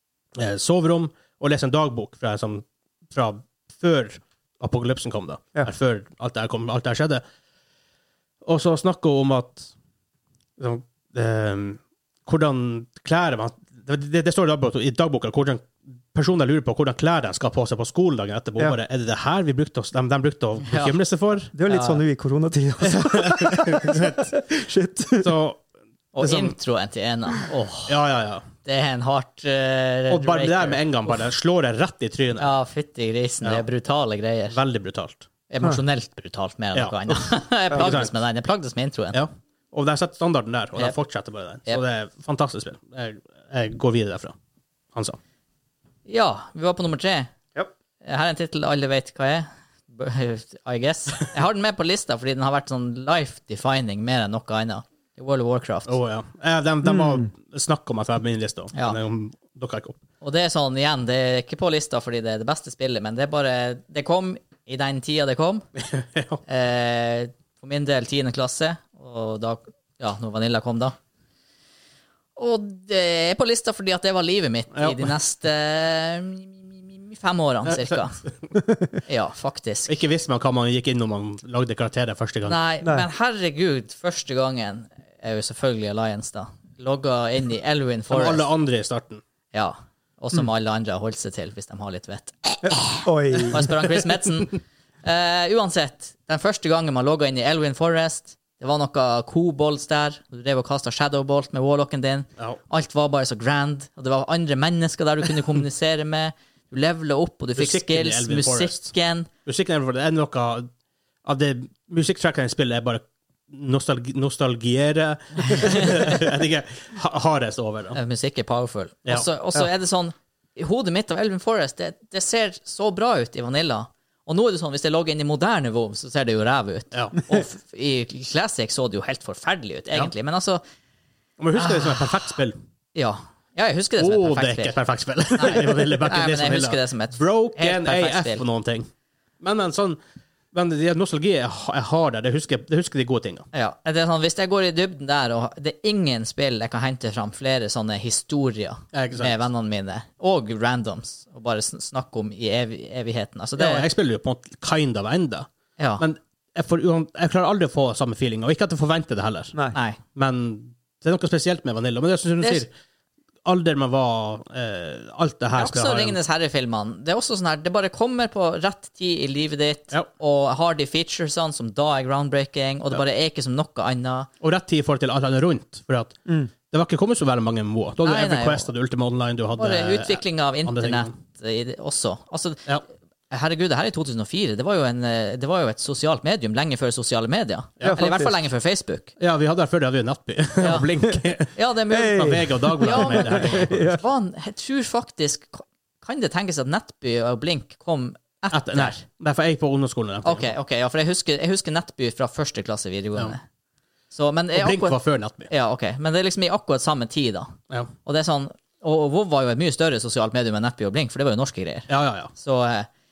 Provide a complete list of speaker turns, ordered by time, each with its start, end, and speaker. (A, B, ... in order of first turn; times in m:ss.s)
0:00.4-0:07.2 A
0:08.4-0:09.7 A
0:10.6-0:21.5 A
0:20.7-0:21.0 B
0:21.5-0:25.3 C
0:21.7-0:22.0 B
0:22.9-0:24.4 A
0:25.2-0:25.6 A
0:26.2-0:27.9 B
0:26.2-0:26.6 A
0:27.9-0:28.5 A
0:28.6-0:30.8 B
0:30.1-0:32.5 A
0:32.4-0:34.6 B
0:34.5-0:35.3 A
0:35.5-0:39.2 B
0:36.8-0:38.1 A
0:39.1-0:44.4 A
0:46.1-0:47.3 B
0:48.0-0:55.9 B
0:55.9-1:00.0 A
0:56.9-0:57.2 C
1:00.2-1:05.6 B
1:05.8-1:06.4 A
1:06.5-1:11.0 B
1:12.4-1:18.2 B
1:14.7-1:15.1 A
1:17.7-1:18.3 A
1:19.0-1:19.9 B
1:19.9-1:22.6 A
1:22.5-1:28.5 B
1:22.8-1:23.1 C
1:28.1-1:29.2 A
1:29.5-1:49.3 B
1:32.9-1:33.7 C
1:47.6-1:48.9 A
1:49.4-1:50.7 A
1:51.2-1:58.0 A
1:55.4-1:56.2 B
1:57.9-2:10.6 B
2:06.9-2:07.2 A
2:11.4-2:12.6 A
2:11.6-2:12.1 B
2:13.0-2:14.8 B
2:14.0-2:18.9 A
2:15.4-2:18.4 B
2:19.4-2:20.0 A
2:20.5-2:23.5 A
2:23.5-2:33.8 B
2:28.9-2:29.4 A
2:33.6-2:35.5 A
2:35.8-2:36.0 B
2:36.0-2:39.6 A
2:40.2-2:42.7 A
2:43.4-2:46.2 A
2:45.6-2:54.3 B
2:54.4-2:56.2 A
2:56.7-3:01.1 A
2:58.0-2:58.7 B
2:59.6-3:02.7 B
3:03.3-3:09.1 B
3:07.8-3:08.4 C
3:09.2-3:14.0 A
3:10.6-3:10.9 B
3:11.5-3:19.0 B
3:11.9-3:14.0 C
3:18.5-3:20.5 A
3:20.2-3:23.4 B
3:24.1-3:25.0 B
3:24.5-3:25.5 A
3:25.5-3:27.5 B
3:28.0-3:32.9 B
3:31.9-3:32.3 A